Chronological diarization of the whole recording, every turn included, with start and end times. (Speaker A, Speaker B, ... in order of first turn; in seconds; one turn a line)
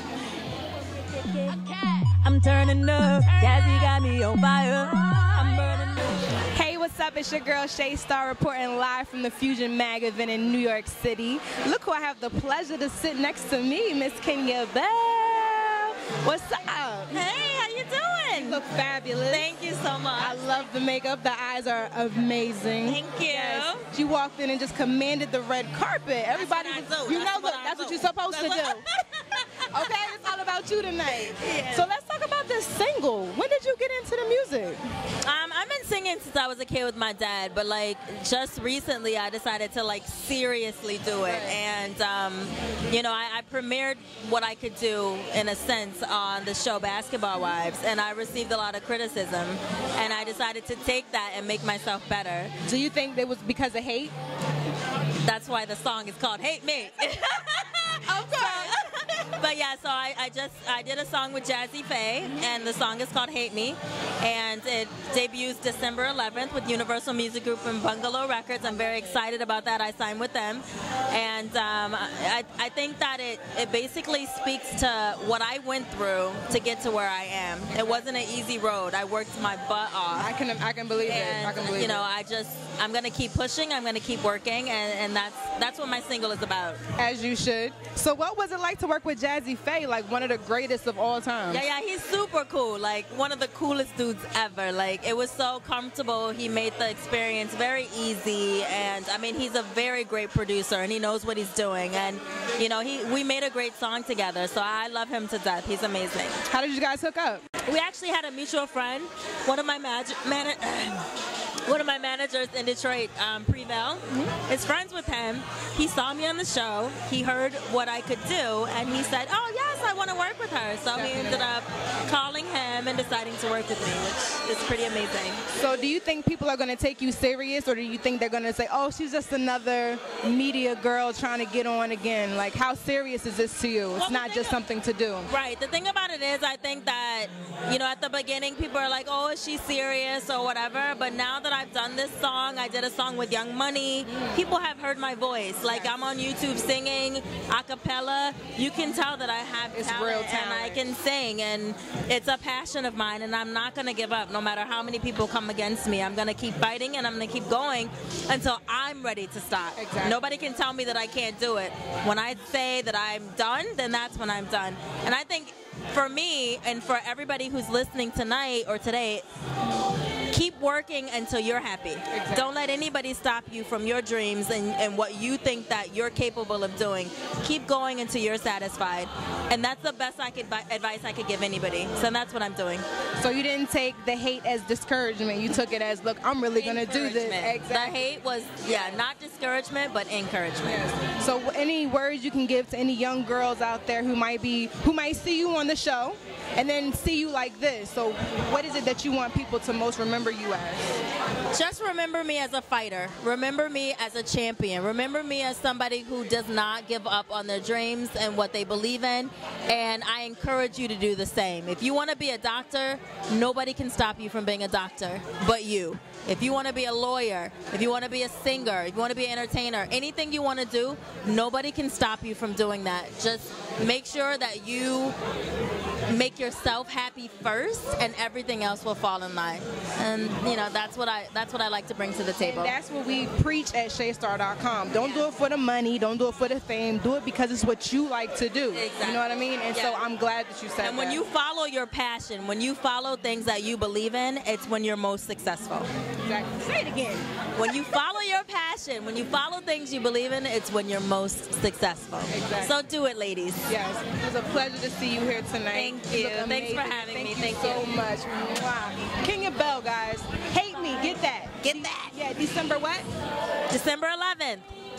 Speaker A: 0.9-6.2
Speaker B: 6.5-17.2
Speaker A: 17.1-18.6
Speaker B: 18.3-19.5
Speaker A: 19.3-20.4
Speaker B: 20.2-28.9
Speaker A: 22.9-23.9
Speaker A: 26.3-30.3
Speaker B: 29.7-34.8
Speaker A: 31.1-31.9
Speaker A: 35.2-52.5
Speaker B: 41.2-41.6
Speaker B: 52.7-54.1
Speaker A: 55.2-80.3
Speaker B: 58.1-58.9
Speaker B: 80.2-82.0
Speaker A: 81.0-86.8
Speaker B: 87.0-91.6
Speaker A: 91.5-106.4
Speaker B: 106.5-107.4
Speaker A: 107.7-111.1
Speaker A: 111.7-125.4
Speaker B: 120.9-121.5
Speaker B: 125.5-135.3
Speaker A: 134.0-134.6
Speaker A: 135.3-169.3
Speaker B: 144.1-144.4
Speaker B: 145.7-145.9
Speaker B: 149.7-150.8
Speaker B: 159.8-160.2
Speaker A: 170.3-182.8
Speaker B: 172.1-172.5
Speaker B: 183.2-188.0
Speaker A: 186.6-190.9
Speaker B: 190.6-201.0
Speaker A: 201.5-225.2
Speaker A: 226.1-232.8
Speaker B: 232.4-241.2
Speaker A: 238.7-240.1
Speaker A: 240.8-245.9
Speaker B: 246.2-247.2
Speaker A: 247.6-253.7
Speaker B: 252.3-252.8
Speaker B: 253.7-263.1
Speaker A: 255.7-257.9
Speaker A: 261.6-262.1
Speaker A: 263.7-264.7